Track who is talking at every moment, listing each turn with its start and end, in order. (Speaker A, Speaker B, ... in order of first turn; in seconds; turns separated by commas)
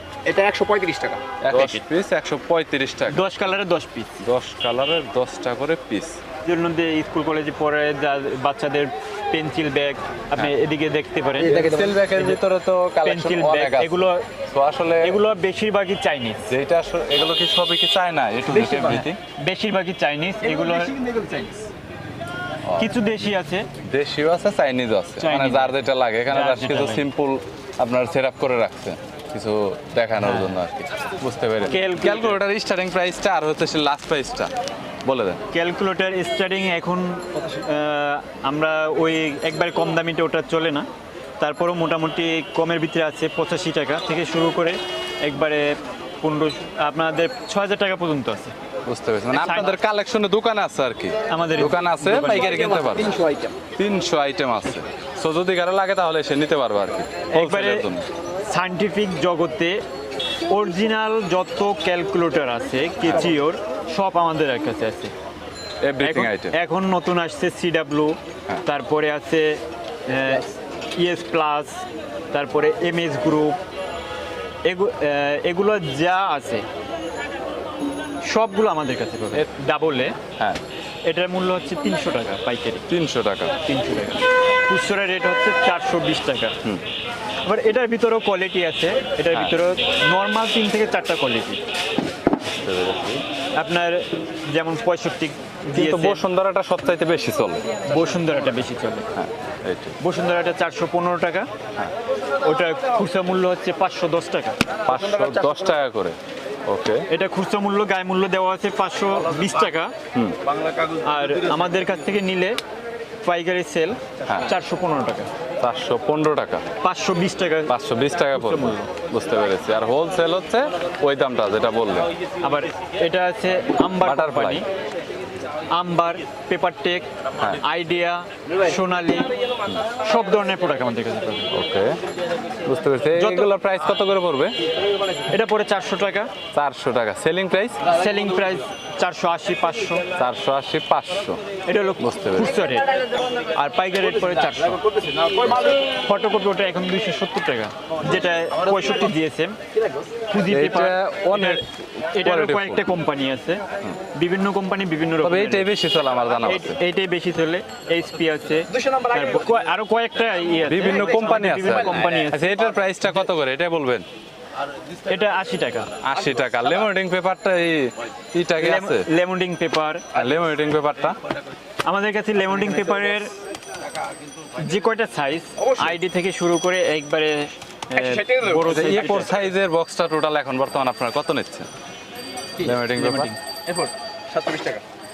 Speaker A: 0.2-1.8, Speaker B: 1.4-3.2, Speaker C: 3.1-4.2, Speaker B: 4.2-6.2, Speaker C: 6.4-12.4, Speaker B: 11.4-15.2, Speaker A: 11.5-12.0, Speaker C: 13.0-14.2, Speaker C: 15.0-16.5, Speaker B: 16.5-19.2, Speaker A: 18.5-19.1, Speaker C: 19.4-20.9, Speaker A: 20.4-21.7, Speaker B: 22.7-23.2, Speaker C: 22.8-23.7, Speaker B: 23.8-34.5, Speaker C: 25.2-27.1, Speaker C: 30.2-30.6, Speaker C: 31.6-32.4, Speaker B: 35.0-35.4, Speaker C: 35.5-40.9, Speaker C: 41.4-48.5, Speaker B: 48.9-53.1, Speaker C: 49.3-49.8, Speaker C: 51.3-52.6, Speaker A: 52.4-53.6, Speaker B: 53.8-58.0, Speaker C: 57.3-57.9, Speaker C: 58.4-59.8, Speaker C: 60.5-65.1, Speaker B: 63.0-63.4, Speaker B: 65.8-66.5, Speaker C: 66.0-73.6, Speaker C: 74.6-76.7, Speaker C: 78.2-80.2, Speaker C: 81.0-82.8, Speaker B: 82.9-83.5, Speaker C: 83.6-86.5, Speaker C: 87.4-91.6, Speaker B: 89.3-89.6, Speaker B: 92.4-93.2, Speaker C: 93.5-96.2, Speaker B: 95.7-97.6, Speaker C: 97.9-99.0, Speaker B: 99.1-100.0, Speaker C: 100.0-101.5, Speaker C: 102.4-104.6, Speaker B: 104.8-106.2, Speaker A: 104.9-105.6, Speaker B: 106.7-107.0, Speaker C: 107.1-109.9, Speaker A: 110.6-111.0, Speaker C: 111.0-112.6, Speaker C: 113.2-115.3, Speaker B: 115.6-116.6, Speaker C: 116.8-117.7, Speaker B: 117.7-122.1, Speaker C: 118.3-118.9, Speaker C: 122.4-124.6, Speaker B: 124.0-124.6, Speaker C: 125.7-129.3, Speaker C: 130.0-131.5, Speaker B: 131.5-132.0, Speaker B: 132.6-134.5, Speaker C: 133.1-133.5, Speaker C: 135.3-136.3, Speaker B: 136.5-137.8, Speaker C: 137.8-140.0, Speaker B: 140.2-141.4, Speaker C: 141.6-142.9, Speaker B: 142.0-142.5, Speaker C: 143.5-144.8, Speaker A: 145.0-145.7, Speaker C: 145.5-149.6, Speaker C: 150.3-151.6, Speaker B: 150.5-151.7, Speaker C: 152.1-155.7, Speaker B: 152.2-152.9, Speaker B: 155.2-156.8, Speaker C: 156.4-162.6, Speaker A: 158.7-159.5, Speaker B: 160.7-164.0, Speaker A: 161.0-162.8, Speaker C: 165.1-165.9, Speaker B: 166.0-169.0, Speaker C: 168.5-170.1, Speaker B: 170.1-171.2, Speaker C: 171.8-173.3, Speaker C: 174.6-179.3, Speaker A: 175.6-176.0, Speaker A: 177.9-179.1, Speaker B: 178.5-181.7, Speaker B: 182.6-183.3, Speaker C: 182.9-183.4, Speaker A: 183.7-184.8